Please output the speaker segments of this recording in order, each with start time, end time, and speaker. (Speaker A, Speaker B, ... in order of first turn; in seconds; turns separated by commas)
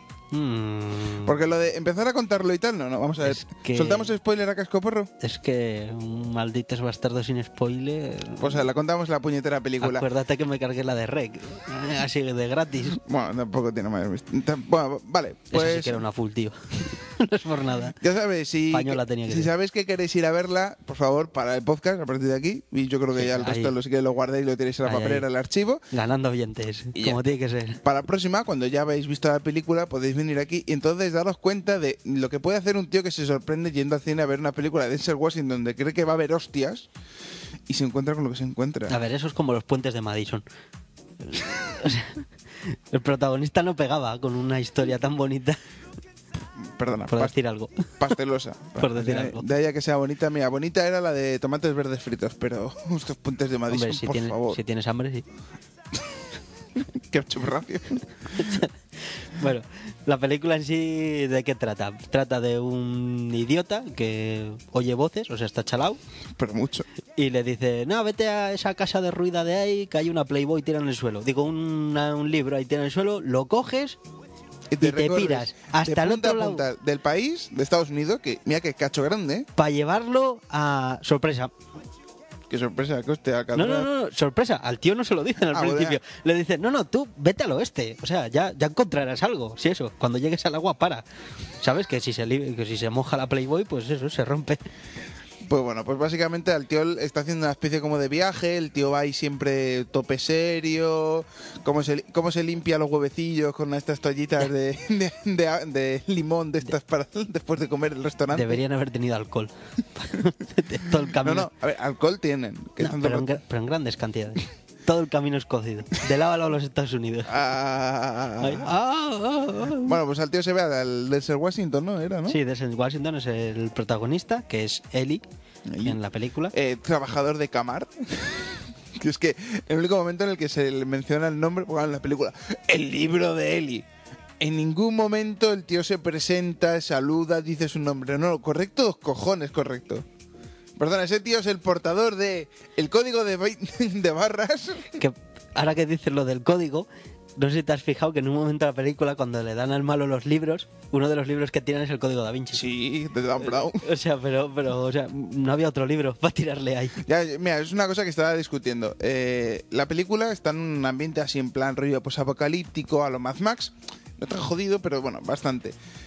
Speaker A: 0.3-1.4, Speaker B: 1.2-5.1, Speaker A: 3.2-4.1, Speaker A: 5.2-8.6, Speaker B: 8.4-10.1, Speaker A: 9.8-13.0, Speaker B: 12.9-16.0, Speaker A: 15.5-18.0, Speaker B: 18.0-25.8, Speaker A: 18.7-19.5, Speaker A: 23.1-23.8, Speaker A: 24.8-25.2, Speaker A: 25.9-27.8, Speaker B: 26.9-27.2, Speaker B: 27.8-36.9, Speaker B: 37.7-39.0, Speaker A: 38.9-40.4, Speaker A: 41.2-45.6, Speaker B: 46.5-47.3, Speaker A: 47.1-47.9, Speaker B: 48.0-54.6, Speaker A: 48.8-49.5, Speaker A: 53.7-55.2, Speaker B: 56.8-58.6, Speaker A: 58.3-66.0, Speaker B: 66.4-66.9, Speaker A: 67.2-74.0, Speaker B: 74.7-79.5, Speaker A: 74.8-76.6, Speaker A: 79.5-81.5, Speaker B: 82.5-83.9, Speaker A: 83.5-91.0, Speaker B: 85.5-86.0, Speaker A: 91.6-94.6, Speaker B: 95.4-108.6, Speaker A: 108.3-111.5, Speaker B: 111.2-113.3, Speaker A: 112.8-117.3, Speaker B: 117.2-118.7, Speaker A: 118.4-120.0, Speaker B: 119.8-122.4, Speaker A: 122.3-125.2, Speaker B: 125.7-126.0, Speaker A: 125.8-126.5, Speaker B: 126.5-133.8, Speaker B: 134.4-140.0, Speaker B: 140.8-145.0, Speaker A: 145.0-152.6, Speaker B: 152.5-153.8, Speaker A: 153.5-157.0, Speaker B: 157.0-165.8